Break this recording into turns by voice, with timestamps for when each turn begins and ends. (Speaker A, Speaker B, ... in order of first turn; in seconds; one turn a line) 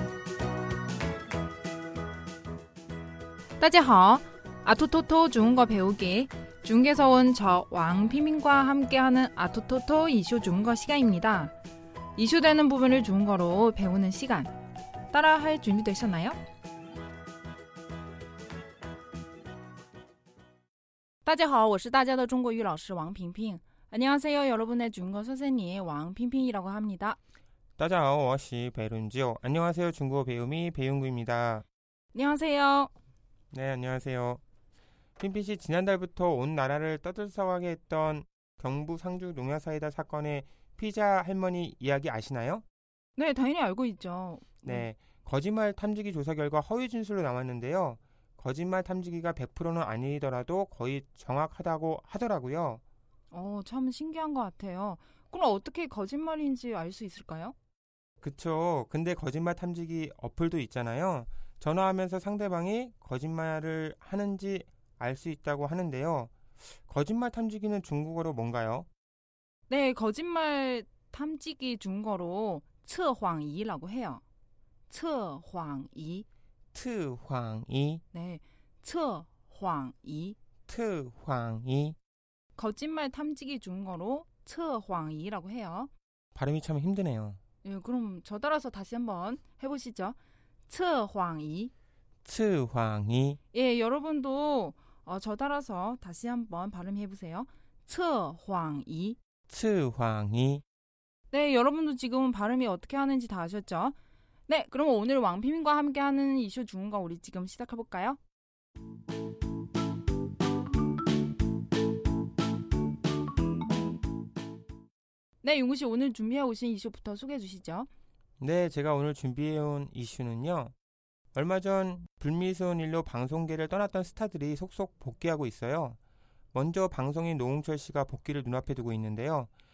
Speaker A: 3.6-11.5
Speaker A: 12.2-14.5
Speaker A: 15.1-16.4
Speaker A: 21.2-27.2
Speaker B: 27.8-31.6
Speaker A: 32.1-32.9
Speaker B: 33.5-34.4
Speaker B: 35.2-42.6
Speaker A: 43.1-44.9
Speaker B: 44.6-52.8
Speaker A: 53.3-57.5
Speaker B: 58.2-68.9
Speaker A: 69.7-74.2
Speaker A: 74.9-76.2
Speaker B: 76.7-78.0
Speaker A: 78.1-80.3
Speaker B: 80.7-82.0
Speaker A: 82.5-85.9
Speaker B: 86.3-87.4
Speaker A: 87.6-90.2
Speaker A: 90.7-91.7
Speaker B: 92.2-93.4
Speaker A: 93.5-99.2
Speaker B: 99.5-100.6
Speaker A: 101.3-104.0
Speaker A: 104.5-108.2
Speaker A: 115.4-117.9
Speaker B: 118.4-120.7
Speaker B: 121.3-126.0
Speaker B: 126.5-129.5